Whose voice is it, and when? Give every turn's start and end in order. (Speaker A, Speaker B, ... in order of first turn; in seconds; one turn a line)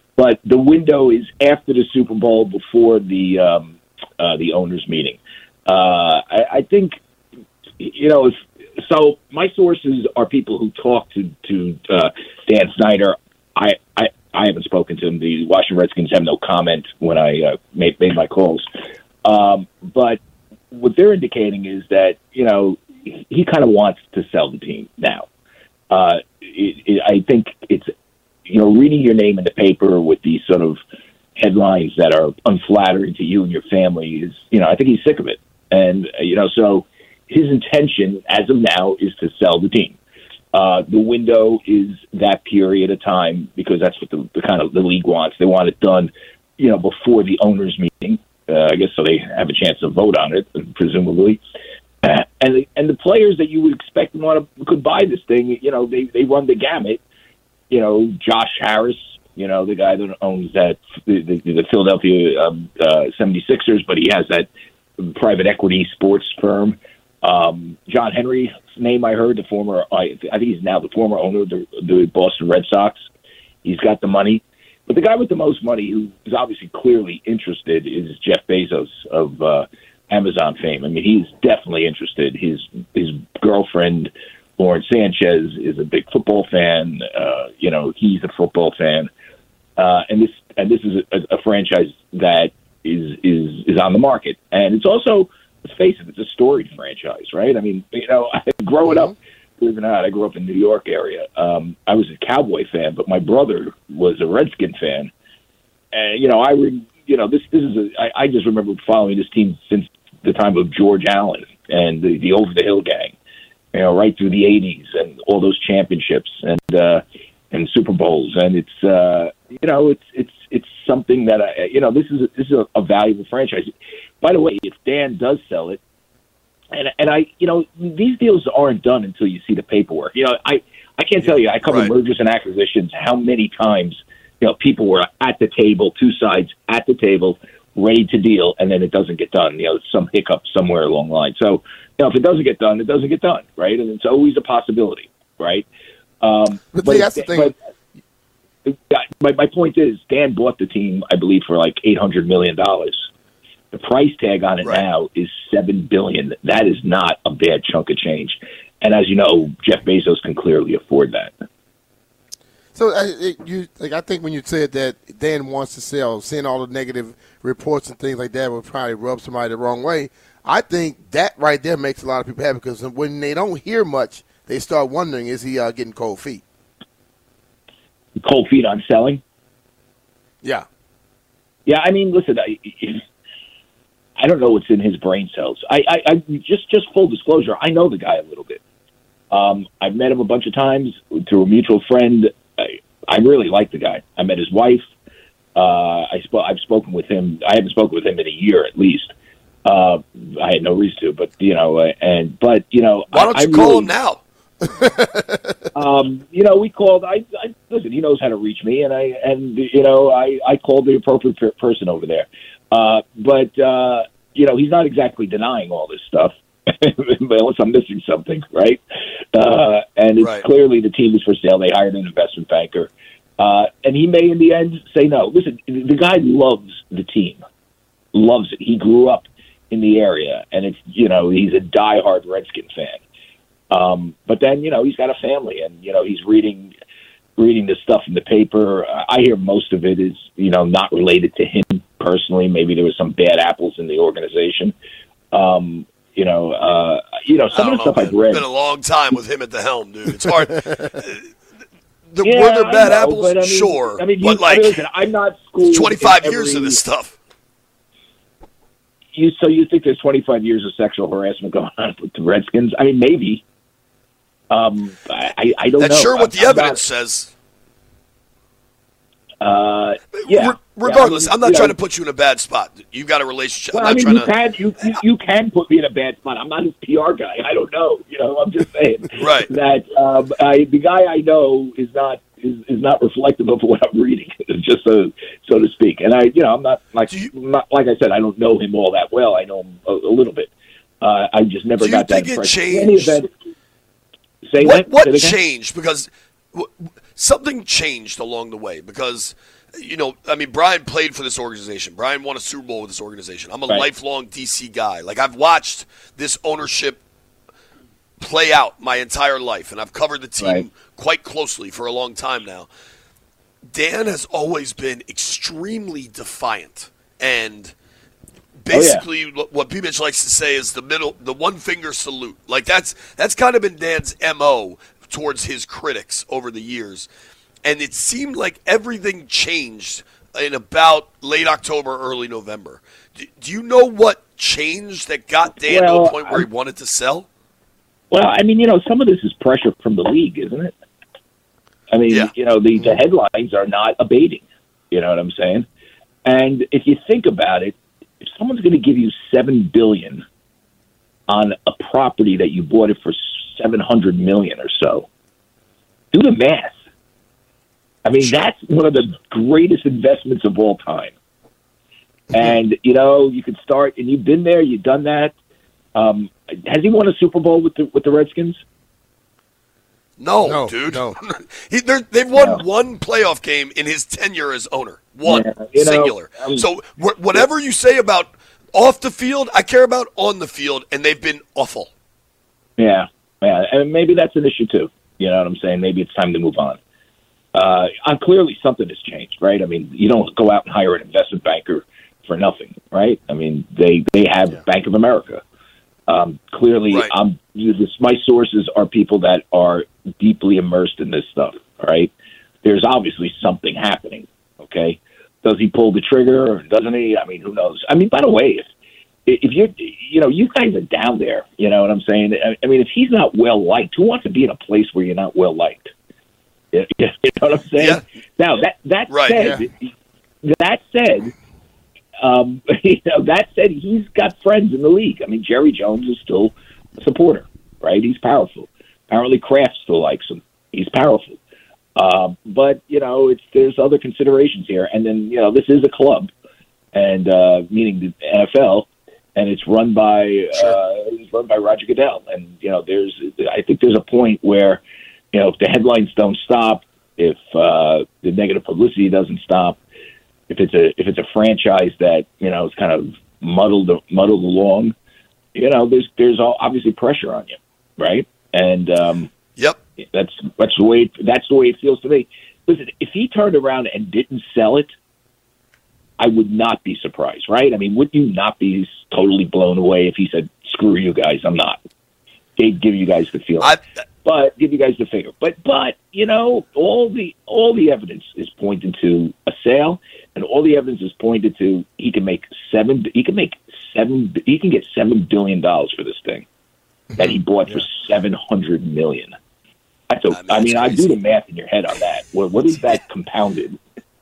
Speaker A: 0.2-7.0
Speaker A: 7.8-18.6
Speaker A: 19.2-20.2
Speaker A: 20.7-25.3
Speaker A: 25.9-27.9
Speaker A: 28.5-30.8
Speaker A: 31.4-40.0
Speaker A: 40.5-51.4
Speaker A: 52.0-57.0
Speaker A: 57.7-73.0
Speaker A: 73.6-89.1
Speaker A: 89.8-105.1
Speaker A: 105.9-113.1
Speaker A: 113.7-123.7
Speaker A: 124.2-125.8
Speaker A: 126.7-145.7
Speaker B: 131.2-131.9
Speaker A: 146.2-147.5
Speaker C: 146.7-147.5
Speaker A: 148.7-153.1
Speaker A: 153.7-161.3
Speaker C: 162.7-176.4
Speaker A: 178.2-179.2
Speaker A: 181.7-183.0
Speaker A: 184.2-188.6
Speaker A: 189.3-194.8
Speaker A: 195.5-199.1
Speaker A: 199.6-203.9
Speaker B: 203.1-204.2
Speaker C: 204.8-205.4
Speaker A: 205.7-218.8
Speaker A: 219.3-227.4
Speaker B: 220.2-220.4
Speaker A: 228.1-233.0
Speaker A: 233.7-236.7
Speaker A: 237.4-244.7
Speaker A: 245.3-248.4
Speaker B: 247.5-251.2
Speaker B: 252.1-254.8
Speaker A: 252.2-256.8
Speaker B: 255.6-257.2
Speaker A: 259.1-263.4
Speaker A: 264.5-266.8
Speaker B: 265.8-267.3
Speaker A: 269.4-271.7
Speaker B: 270.1-274.3
Speaker A: 273.7-293.3
Speaker B: 279.2-279.5
Speaker B: 291.8-293.2
Speaker A: 294.4-295.4
Speaker B: 294.6-307.0
Speaker B: 308.2-312.7
Speaker A: 310.4-310.6
Speaker B: 313.7-317.7
Speaker B: 318.6-327.1
Speaker A: 318.7-319.0
Speaker B: 327.6-337.3
Speaker A: 335.6-336.4
Speaker A: 338.1-340.7
Speaker A: 341.9-345.6
Speaker A: 346.2-350.2
Speaker A: 351.3-355.1
Speaker A: 356.1-356.7
Speaker A: 358.0-361.1
Speaker A: 362.3-365.3
Speaker A: 365.9-368.6
Speaker B: 370.2-381.9
Speaker C: 370.4-371.2
Speaker A: 372.3-372.6
Speaker A: 375.2-376.6
Speaker A: 382.8-386.8
Speaker A: 387.5-395.4
Speaker A: 396.1-402.1
Speaker A: 402.6-408.6
Speaker A: 409.2-415.9
Speaker A: 416.7-419.9
Speaker B: 419.1-419.4
Speaker C: 419.4-419.6
Speaker A: 420.4-421.3
Speaker A: 422.2-431.4
Speaker A: 431.9-436.3
Speaker A: 436.9-444.8
Speaker A: 445.3-449.8
Speaker A: 450.5-454.9
Speaker A: 455.5-459.3
Speaker A: 460.1-464.9
Speaker A: 466.2-471.8
Speaker A: 472.6-486.4
Speaker C: 487.1-487.9
Speaker A: 487.2-489.3
Speaker A: 490.1-493.8
Speaker B: 490.3-491.2